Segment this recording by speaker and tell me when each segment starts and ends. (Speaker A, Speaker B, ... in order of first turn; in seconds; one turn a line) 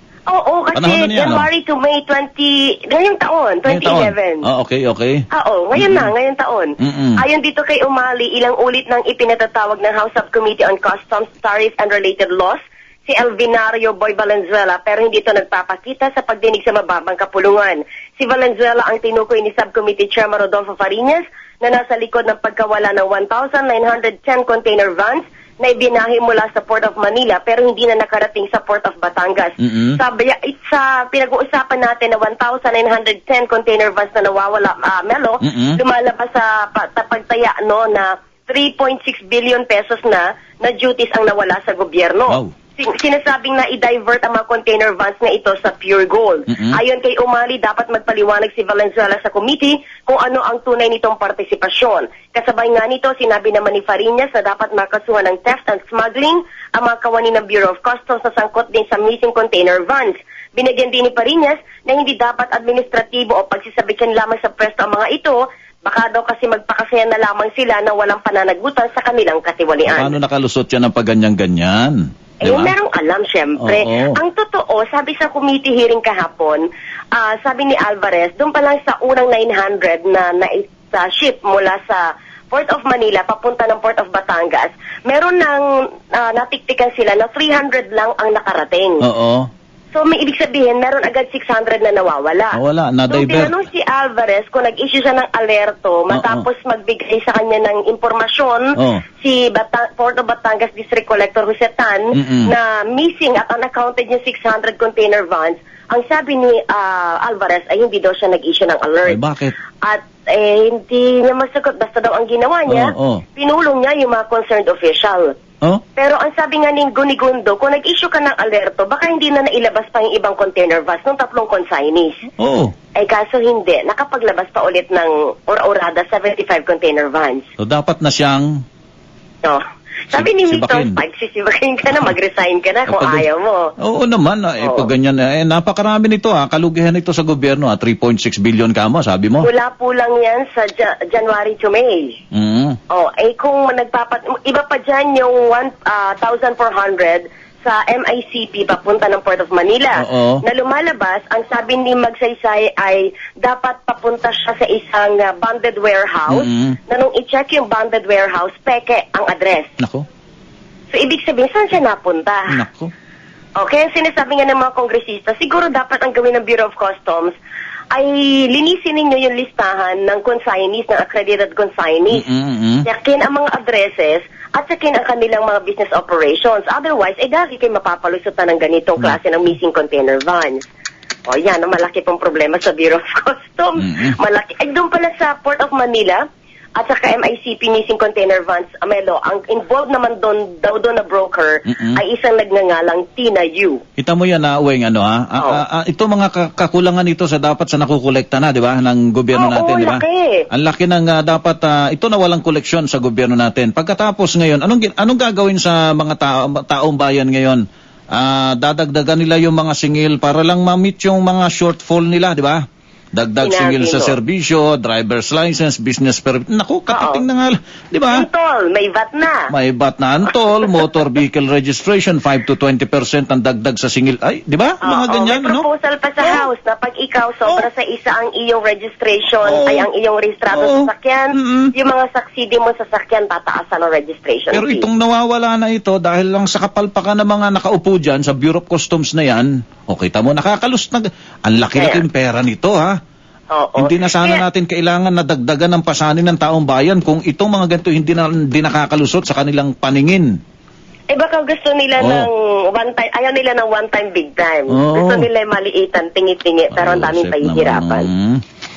Speaker A: 0.3-4.5
Speaker B: 0.7-1.5
Speaker B: 3.6-5.2
Speaker A: 5.3-70.2
Speaker B: 5.8-6.1
Speaker B: 6.8-7.2
Speaker B: 29.6-30.0
Speaker B: 35.4-35.8
Speaker B: 46.5-46.8
Speaker B: 69.8-72.7
Speaker A: 72.4-76.6
Speaker B: 73.6-74.2
Speaker A: 77.1-89.0
Speaker B: 89.0-89.5
Speaker A: 89.9-92.6
Speaker B: 92.5-93.5
Speaker A: 93.1-109.2
Speaker B: 96.1-96.4
Speaker B: 98.8-99.0
Speaker B: 102.1-102.5
Speaker B: 109.0-109.5
Speaker A: 109.8-115.3
Speaker B: 112.7-113.2
Speaker A: 116.0-122.2
Speaker B: 122.4-122.7
Speaker A: 123.0-127.5
Speaker B: 127.6-128.5
Speaker A: 129.4-133.7
Speaker B: 130.1-131.0
Speaker B: 132.9-133.2
Speaker B: 133.8-139.5
Speaker A: 134.6-134.9
Speaker A: 139.4-142.2
Speaker B: 142.3-142.8
Speaker A: 142.9-159.7
Speaker B: 150.0-150.4
Speaker B: 156.3-156.8
Speaker B: 159.8-160.1
Speaker A: 160.9-162.6
Speaker B: 162.5-162.9
Speaker A: 163.6-167.4
Speaker A: 167.9-172.3
Speaker B: 172.1-172.8
Speaker A: 172.8-180.7
Speaker A: 181.3-186.2
Speaker B: 183.8-184.1
Speaker A: 186.8-193.8
Speaker B: 191.7-192.0
Speaker B: 194.0-207.6
Speaker A: 199.3-200.4
Speaker B: 208.1-212.6
Speaker B: 213.1-218.2
Speaker A: 213.4-214.2
Speaker A: 216.9-217.2
Speaker A: 218.1-219.5
Speaker B: 219.5-225.6
Speaker A: 224.8-234.9
Speaker B: 229.4-229.9
Speaker B: 230.5-231.7
Speaker B: 234.5-242.9
Speaker A: 241.7-242.0
Speaker A: 243.5-244.4
Speaker B: 243.8-250.3
Speaker A: 251.1-258.1
Speaker B: 252.0-252.3
Speaker B: 254.7-255.3
Speaker B: 256.7-258.4